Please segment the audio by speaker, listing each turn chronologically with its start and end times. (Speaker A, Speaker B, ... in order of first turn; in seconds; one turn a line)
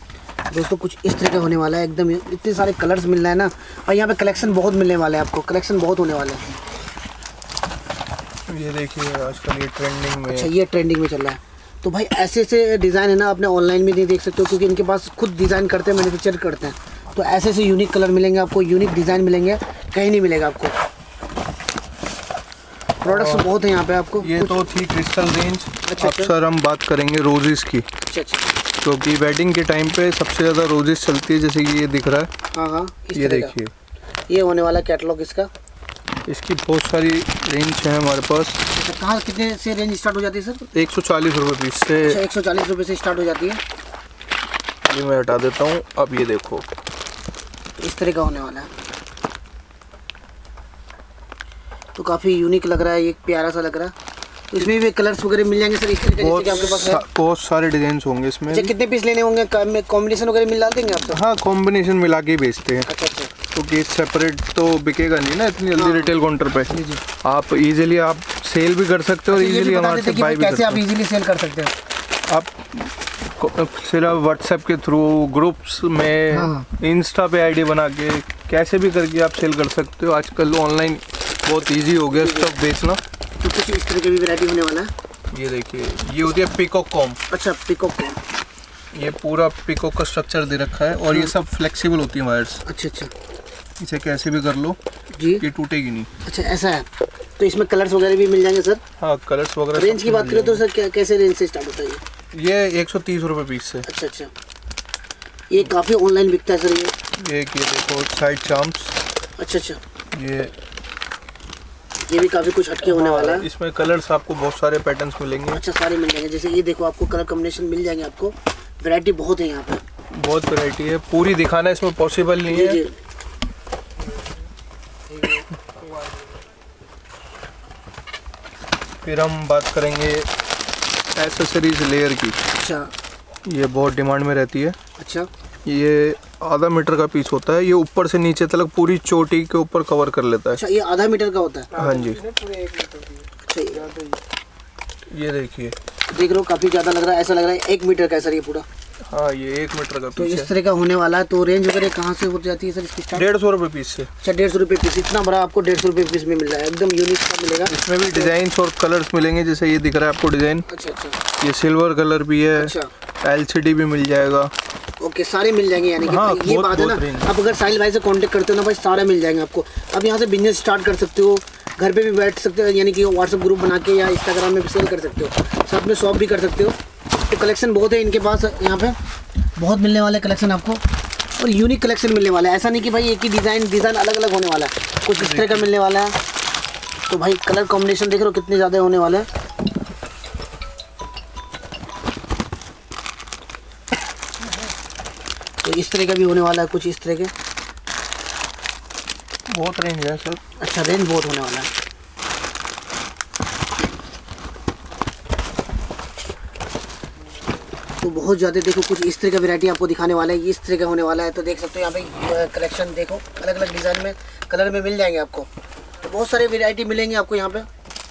Speaker A: 0.5-6.5
Speaker B: 8.5-10.5
Speaker A: 10.3-20.8
Speaker A: 23.0-24.6
Speaker B: 23.1-23.5
Speaker B: 24.2-27.9
Speaker A: 25.9-26.3
Speaker A: 28.1-28.5
Speaker B: 28.8-32.3
Speaker A: 32.5-33.6
Speaker B: 33.1-33.7
Speaker A: 34.3-35.5
Speaker B: 36.3-38.6
Speaker A: 38.7-40.7
Speaker B: 40.7-42.2
Speaker A: 42.0-43.6
Speaker B: 44.9-46.6
Speaker A: 47.8-48.7
Speaker A: 52.0-53.9
Speaker A: 54.5-57.0
Speaker B: 56.2-58.7
Speaker A: 58.5-61.2
Speaker B: 61.1-62.9
Speaker A: 62.9-63.3
Speaker B: 63.5-70.8
Speaker A: 65.8-66.2
Speaker A: 66.7-67.0
Speaker A: 69.3-71.7
Speaker B: 72.3-83.0
Speaker A: 76.3-76.7
Speaker A: 82.1-82.5
Speaker A: 83.4-84.9
Speaker B: 85.3-87.2
Speaker A: 87.3-88.2
Speaker B: 88.9-92.6
Speaker A: 92.7-93.1
Speaker B: 93.8-94.8
Speaker A: 95.2-95.4
Speaker B: 95.4-96.1
Speaker A: 96.2-96.9
Speaker A: 97.4-98.8
Speaker B: 99.0-100.6
Speaker A: 99.7-102.0
Speaker B: 102.3-103.9
Speaker A: 103.8-104.3
Speaker A: 105.5-106.9
Speaker B: 107.2-109.0
Speaker A: 109.4-109.8
Speaker B: 110.1-110.5
Speaker A: 112.1-113.5
Speaker B: 112.8-115.6
Speaker A: 115.5-119.8
Speaker B: 120.1-122.8
Speaker A: 122.5-122.9
Speaker B: 129.0-130.3
Speaker B: 131.1-132.4
Speaker A: 132.6-132.9
Speaker B: 133.5-134.8
Speaker A: 135.0-135.3
Speaker B: 135.7-140.6
Speaker A: 140.5-141.8
Speaker B: 141.8-142.3
Speaker A: 143.4-144.0
Speaker B: 145.1-145.8
Speaker A: 146.1-148.7
Speaker B: 149.1-150.5
Speaker A: 150.2-153.3
Speaker B: 153.1-154.1
Speaker A: 154.2-158.3
Speaker B: 157.7-160.7
Speaker A: 160.7-161.2
Speaker B: 161.4-164.5
Speaker A: 162.6-162.9
Speaker A: 165.0-176.8
Speaker B: 166.0-167.3
Speaker A: 177.3-179.0
Speaker A: 179.6-180.8
Speaker A: 181.4-186.2
Speaker B: 185.2-185.7
Speaker A: 187.1-189.3
Speaker A: 195.6-197.3
Speaker B: 199.5-200.4
Speaker A: 200.6-201.7
Speaker A: 208.0-215.5
Speaker A: 216.0-217.7